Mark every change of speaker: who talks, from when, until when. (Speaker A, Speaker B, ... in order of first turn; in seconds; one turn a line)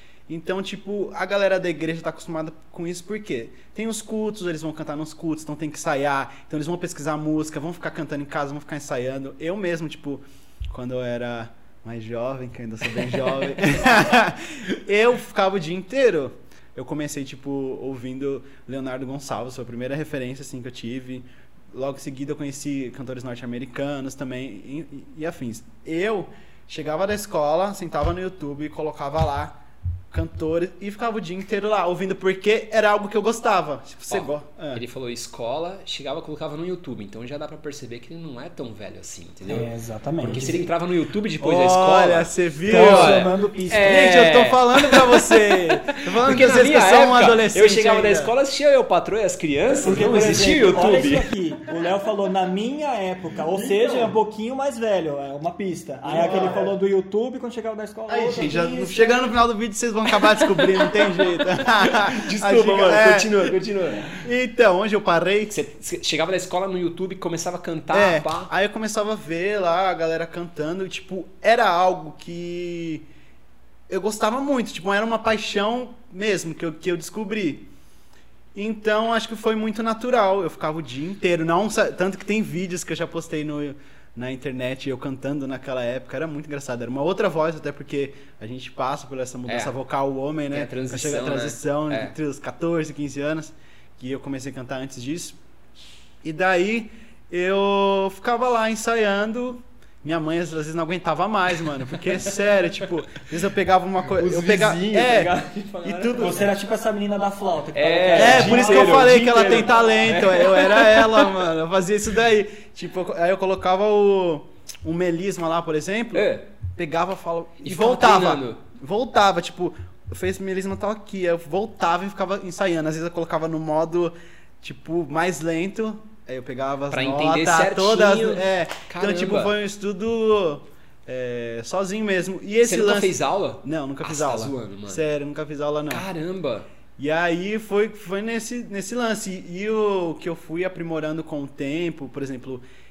Speaker A: 0.3-29.6
Speaker A: 30.1-34.8
Speaker B: 34.1-51.3
Speaker C: 39.5-40.6
Speaker A: 41.4-48.3
Speaker C: 42.7-44.1
Speaker C: 49.8-59.3
Speaker A: 50.2-50.4
Speaker A: 53.6-54.1
Speaker A: 56.1-56.7
Speaker A: 58.1-65.5
Speaker B: 60.2-64.2
Speaker B: 65.5-68.5
Speaker A: 67.9-73.1
Speaker A: 73.9-77.7
Speaker A: 78.5-95.4
Speaker B: 89.5-89.7
Speaker B: 90.5-92.2
Speaker A: 96.2-106.5
Speaker B: 104.1-106.4
Speaker C: 106.2-110.4
Speaker B: 107.7-111.4
Speaker A: 108.1-136.1
Speaker B: 116.1-116.5
Speaker B: 117.6-118.6
Speaker B: 126.9-129.6
Speaker B: 132.6-135.0
Speaker B: 135.9-136.7
Speaker A: 137.0-142.6